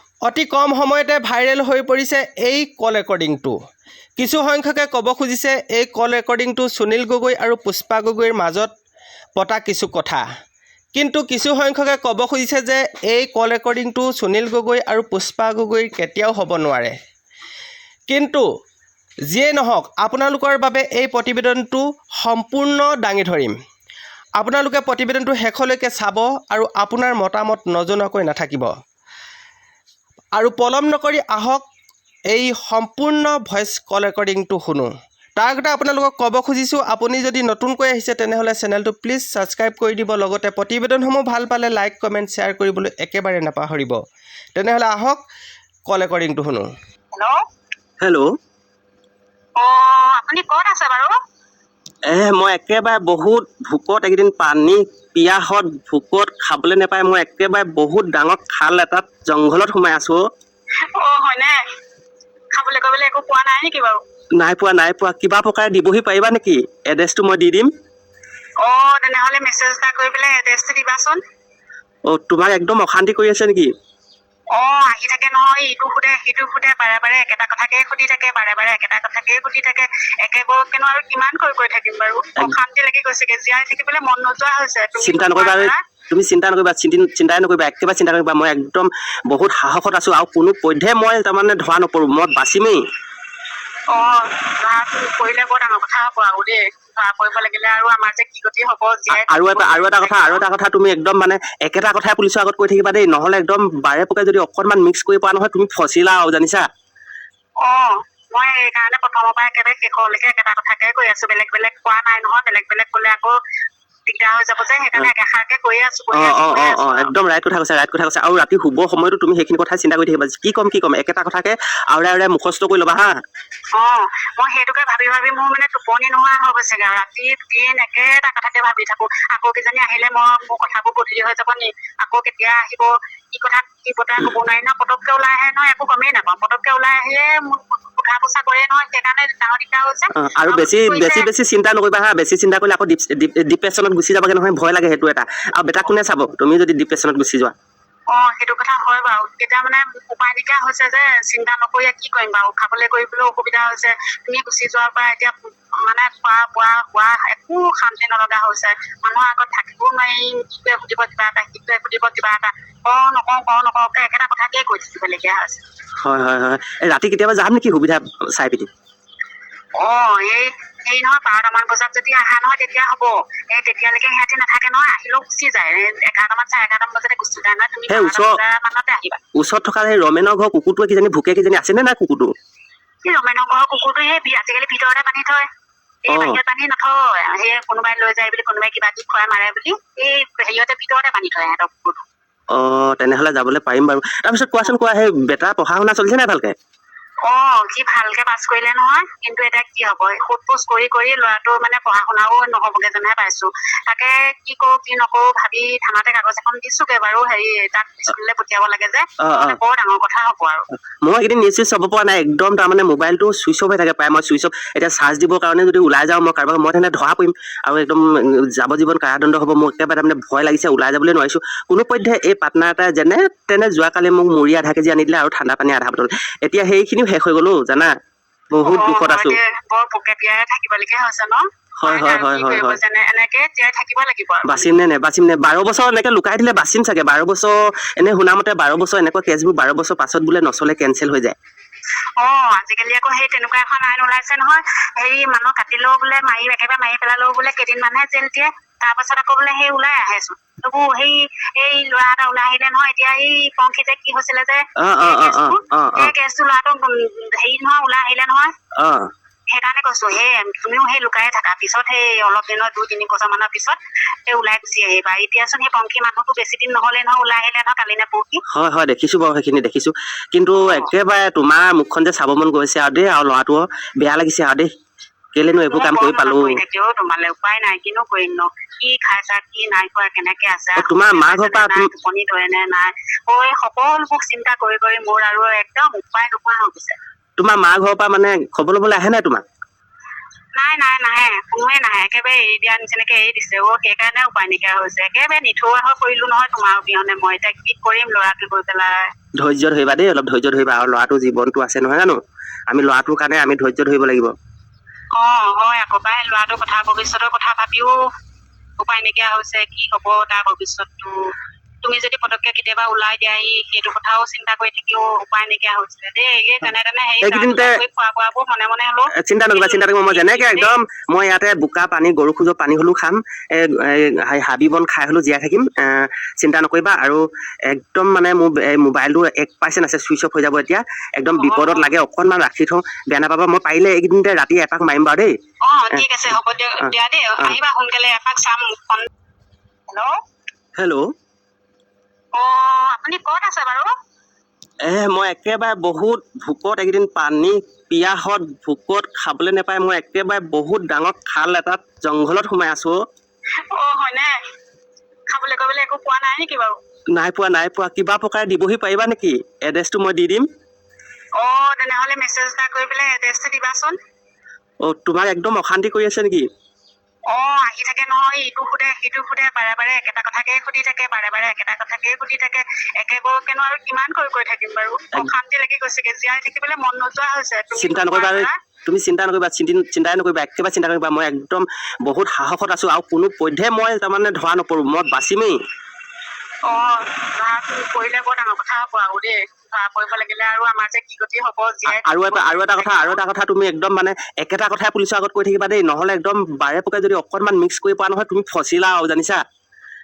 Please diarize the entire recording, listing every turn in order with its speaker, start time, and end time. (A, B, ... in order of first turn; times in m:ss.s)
0:00.3-0:03.5 A
0:04.2-0:08.8 A
0:09.4-0:10.2 A
0:10.9-0:17.0 A
0:18.1-0:18.4 A
0:19.3-0:23.5 A
0:24.4-0:28.7 A
0:30.4-0:31.6 A
0:32.3-0:44.0 A
0:44.5-0:45.2 A
0:45.9-0:46.7 A
0:47.1-0:47.4 B
0:48.0-0:48.3 C
0:49.6-0:51.1 B
0:52.1-1:00.2 C
1:01.0-1:01.6 B
1:02.5-1:04.0 B
1:04.4-1:07.7 C
1:08.6-1:11.2 B
1:12.1-1:13.7 C
1:14.5-1:25.8 B
1:25.0-1:32.8 C
1:33.9-1:40.4 B
1:39.1-1:46.6 C
1:47.6-1:53.4 B
1:54.1-1:57.1 B
1:56.1-2:03.1 C
2:03.8-2:21.3 B
2:20.2-2:27.5 C
2:28.1-2:45.6 B
2:46.0-2:48.7 C
2:49.8-2:59.2 B
2:57.9-2:58.4 C
2:59.3-3:02.3 C
3:03.0-3:05.5 B
3:06.0-3:12.0 B
3:06.1-3:06.4 C
3:12.5-3:16.5 C
3:17.2-3:30.6 B
3:29.2-3:29.6 C
3:31.0-3:47.9 C
3:48.5-3:49.4 C
3:48.6-3:54.7 B
3:51.8-3:52.8 C
3:54.4-4:01.3 C
4:02.2-4:18.5 B
4:14.8-4:16.1 C
4:18.8-4:19.1 C
4:19.5-4:28.4 B
4:28.5-4:34.7 C
4:30.6-4:30.9 B
4:35.3-4:36.6 C
4:35.7-4:47.0 B
4:40.8-4:41.9 C
4:47.4-4:49.4 C
4:50.6-4:59.1 B
4:59.4-5:02.2 C
5:02.7-5:04.3 C
5:05.2-5:07.9 B
5:08.8-5:11.3 B
5:11.8-5:20.7 B
5:17.2-5:17.8 C
5:19.2-5:35.3 C
5:31.3-5:31.9 B
5:35.6-5:39.1 B
5:35.9-5:36.3 C
5:39.9-5:40.2 B
5:40.8-5:41.1 C
5:42.3-5:43.9 B
5:44.8-5:53.0 C
5:53.8-5:54.3 B
5:55.3-5:56.7 B
5:57.1-6:00.4 C
6:01.4-6:04.0 B
6:04.8-6:06.4 C
6:07.3-6:18.5 B
6:17.8-6:25.6 C
6:26.7-6:33.2 B
6:31.9-6:39.4 C